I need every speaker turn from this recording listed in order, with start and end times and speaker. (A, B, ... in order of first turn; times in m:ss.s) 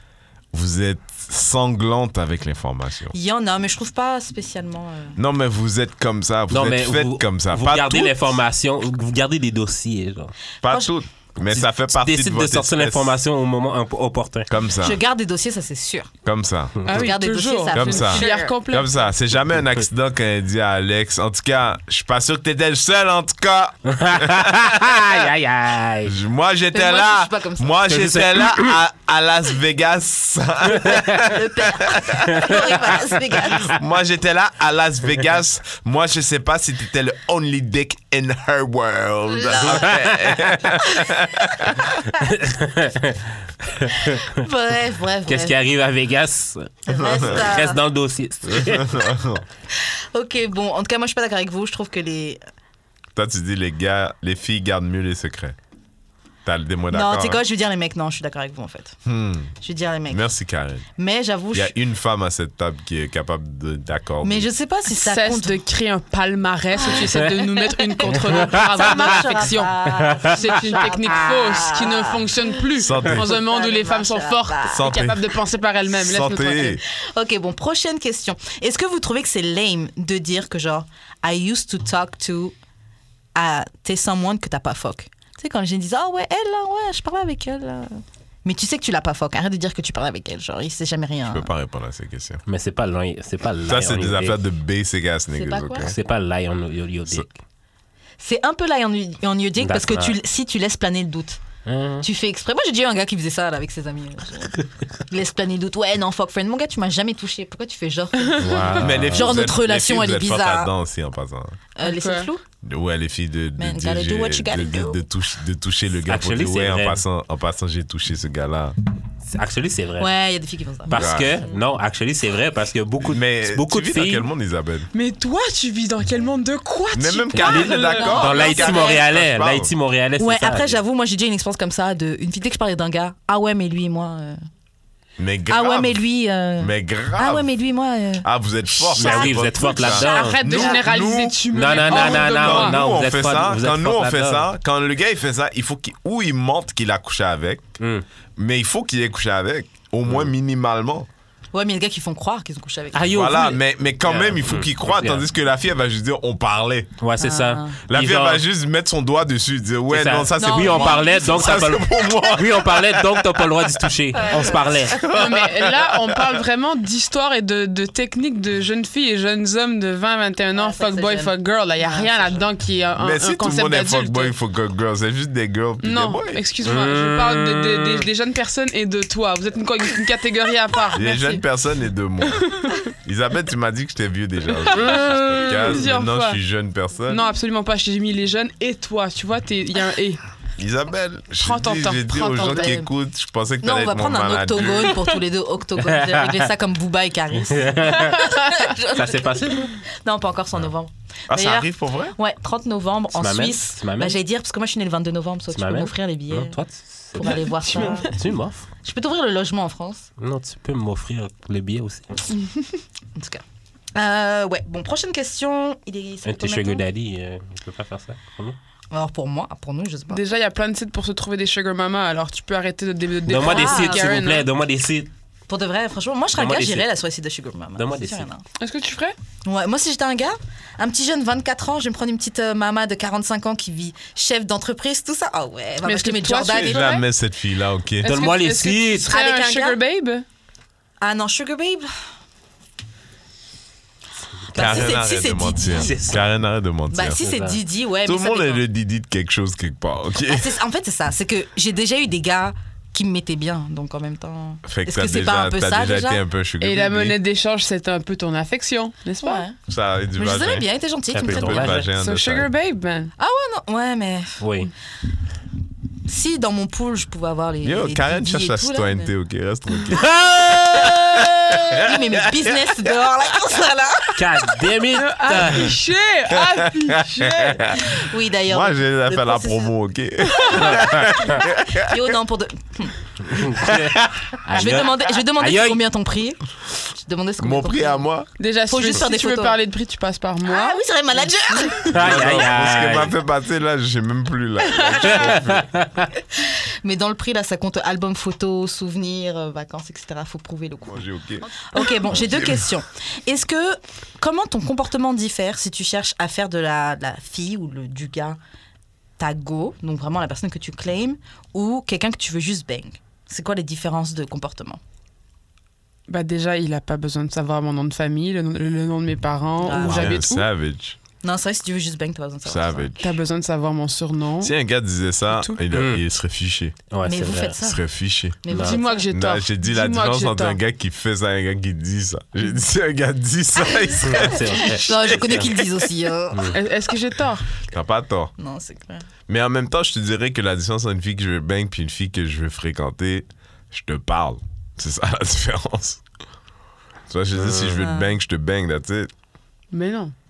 0:00.5-0:03.1 A
0:03.1-0:05.2 B
0:05.2-0:08.2 A
0:06.5-0:10.3 C
0:10.6-0:13.2 A
0:10.6-0:10.9 B
0:11.4-0:14.5 C
0:14.5-0:15.0 A
0:14.8-0:16.1 B
0:16.2-0:16.8 A
0:16.8-0:19.0 D
0:16.9-0:18.5 B
0:17.7-0:25.1 A
0:23.9-0:26.1 C
0:26.0-0:32.8 A
0:26.7-0:27.9 B
0:27.9-0:28.8 C
0:31.2-0:33.7 B
0:33.4-0:42.0 A
0:39.3-0:40.1 B
0:39.6-0:40.1 C
0:40.9-0:41.1 B
0:42.2-0:44.3 C
0:43.9-0:45.5 B
0:45.3-0:49.1 C
0:46.9-0:47.8 B
0:47.0-0:47.5 A
0:48.5-0:49.4 A
0:49.7-0:52.4 B
0:53.2-0:55.6 A
0:56.4-0:57.4 A
0:56.9-0:59.0 B
0:59.0-0:59.5 A
0:59.6-1:00.2 B
1:00.1-1:00.8 A
1:01.0-1:01.7 B
1:01.5-1:04.5 A
1:04.2-1:05.6 B
1:04.9-1:16.8 D
1:06.8-1:15.0 B
1:08.3-1:09.2 C
1:09.9-1:10.4 C
1:12.8-1:13.3 A
1:14.7-1:15.2 A
1:15.9-1:16.8 A
1:16.9-1:22.5 B
1:23.4-1:31.5 B
1:31.3-1:32.4 A
1:32.4-1:34.4 C
1:33.7-1:35.9 A
1:35.3-1:35.9 B
1:35.8-1:37.4 C
1:38.2-1:41.4 B
1:39.6-1:40.2 C
1:41.6-1:42.0 C
1:42.0-1:50.7 B
1:48.2-1:48.8 D
1:48.4-1:49.4 C
1:48.8-1:51.6 A
1:51.8-1:52.4 B
1:51.8-1:52.3 D
1:52.6-1:58.7 A
1:53.6-1:55.0 B
1:56.0-1:57.0 C
1:59.2-2:00.1 C
2:00.0-2:01.0 B
2:00.9-2:04.3 C
2:00.9-2:01.4 A
2:03.0-2:04.9 A
2:04.9-2:08.8 D
2:06.9-2:09.7 A
2:07.3-2:10.8 C
2:07.5-2:09.0 B
2:10.2-2:14.4 B
2:15.2-2:16.0 A
2:15.5-2:18.2 B
2:16.6-2:17.5 A
2:18.2-2:27.7 A
2:18.9-2:19.3 B
2:18.9-2:20.4 C
2:19.7-2:22.8 D
2:20.1-2:20.8 B
2:21.5-2:24.5 C
2:27.8-2:28.0 C
2:28.4-2:31.1 A
2:31.5-2:33.2 B
2:32.9-2:35.2 C
2:33.1-2:36.9 A
2:37.0-2:38.4 C
2:37.2-2:37.8 B
2:37.9-2:43.4 A
2:39.9-2:45.0 C
2:40.4-2:41.8 B
2:44.3-2:44.7 B
2:44.9-2:46.4 A
2:45.1-2:54.3 D
2:50.5-2:52.4 B
2:53.0-2:56.4 A
2:55.8-3:01.4 D
2:56.6-2:58.1 C
3:00.9-3:07.2 A
3:02.2-3:02.9 D
3:04.6-3:06.4 D
3:07.1-3:10.2 D
3:10.6-3:15.1 A
3:11.4-3:12.8 D
3:12.3-3:12.8 B
3:13.6-3:26.6 B
3:15.8-3:16.5 C
3:17.5-3:19.8 C
3:21.3-3:22.2 A
3:23.1-3:24.2 C
3:25.5-3:28.6 C
3:27.1-3:28.1 B
3:27.2-3:28.1 D
3:28.8-3:30.1 B
3:30.2-3:32.3 C
3:33.2-3:33.4 B
3:33.9-3:36.8 B
3:36.2-3:38.6 C
3:38.9-3:40.2 B
3:40.1-3:44.5 D
3:43.2-3:45.1 C
3:43.4-3:44.1 B
3:45.5-3:48.4 B
3:46.3-3:46.9 C
3:47.8-3:48.3 C
3:48.6-3:49.2 D
3:49.4-3:57.0 B
3:55.8-3:57.0 D
3:56.5-3:58.1 A
3:58.0-4:00.2 D
3:58.0-3:59.1 C
3:59.1-3:59.8 B
4:01.0-4:01.9 B
4:04.5-4:06.0 B
4:04.5-4:07.2 A
4:05.7-4:06.2 C
4:06.9-4:08.6 B
4:07.2-4:07.6 C
4:08.0-4:10.5 A
4:10.2-4:16.2 B
4:14.6-4:17.2 A
4:16.6-4:19.4 D
4:19.2-4:19.6 B
4:19.7-4:20.7 A
4:20.1-4:21.8 B
4:21.1-4:21.9 C
4:21.3-4:22.5 A
4:22.0-4:23.1 D
4:23.2-4:24.4 B
4:24.4-4:24.7 C
4:26.0-4:29.1 B
4:27.6-4:30.2 A
4:30.3-4:34.4 B
4:30.7-4:32.8 A
4:34.2-4:35.8 C
4:34.9-4:38.0 D
4:36.3-4:42.1 A
4:37.8-4:39.7 B
4:40.4-4:43.0 B
4:43.3-4:45.8 C
4:44.5-4:48.1 B
4:47.4-4:48.3 A
4:48.4-4:51.8 D
4:48.7-4:49.6 B
4:50.4-4:52.0 B
4:51.9-4:53.1 C
4:51.9-4:55.7 A
4:54.8-4:55.2 D
4:55.1-4:56.1 C
4:56.4-5:08.4 B
5:00.9-5:01.5 A
5:02.1-5:02.7 A
5:09.2-5:14.8 B
5:16.1-5:20.5 D
5:19.6-5:20.2 B
5:19.8-5:21.0 A
5:21.2-5:22.9 B
5:22.4-5:23.2 A
5:23.0-5:24.5 D
5:24.4-5:26.8 A
5:25.3-5:25.6 D
5:25.7-5:26.0 C
5:26.9-5:27.6 C
5:27.0-5:27.8 B
5:27.6-5:28.4 A
5:28.4-5:29.1 B
5:28.5-5:28.8 C
5:28.6-5:30.6 D
5:29.1-5:35.6 A
5:34.0-5:36.6 B
5:34.0-5:35.5 C
5:36.3-5:36.6 C
5:36.5-5:37.5 D
5:37.6-5:38.3 A
5:38.4-5:39.0 B
5:39.3-5:46.0 A
5:47.1-5:49.1 A
5:47.4-5:47.8 C
5:47.7-5:48.1 B
5:49.7-5:50.1 D